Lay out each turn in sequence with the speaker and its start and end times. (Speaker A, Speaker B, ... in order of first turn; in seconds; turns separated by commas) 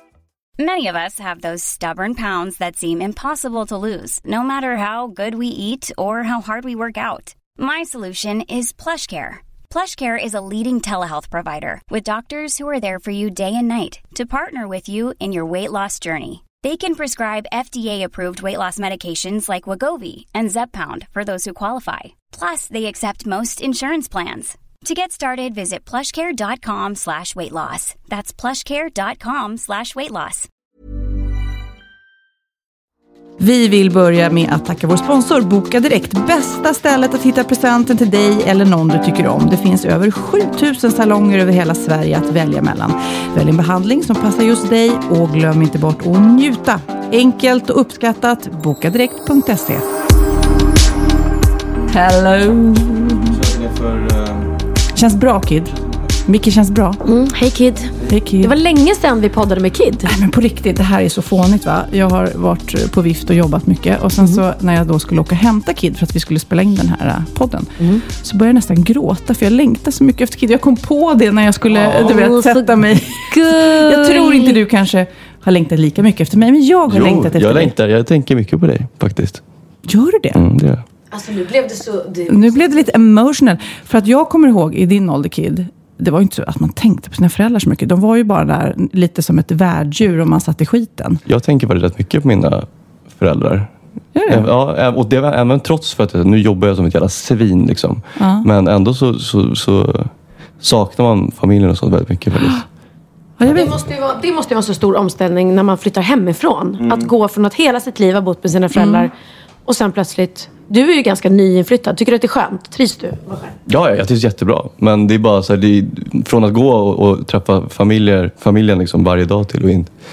Speaker A: 0.6-30.5, Speaker B: 33.4-49.9, Speaker B: 51.9-53.4, Speaker B: 55.0-57.0, Speaker C: 57.0-60.1, Speaker B: 58.0-58.5, Speaker B: 60.0-77.8, Speaker C: 67.8-68.0, Speaker C: 72.0-74.6, Speaker D: 76.9-79.4, Speaker B: 79.9-80.4, Speaker D: 80.4-80.8, Speaker C: 81.1-82.8, Speaker B: 82.3-91.2, Speaker D: 91.3-93.7, Speaker B: 94.1-94.5, Speaker D: 94.3-102.6, Speaker B: 98.2-98.5, Speaker B: 102.4-102.6, Speaker B: 103.4-103.8, Speaker C: 103.5-109.1, Speaker B: 108.7-109.1, Speaker C: 109.7-113.5, Speaker D: 113.7-119.9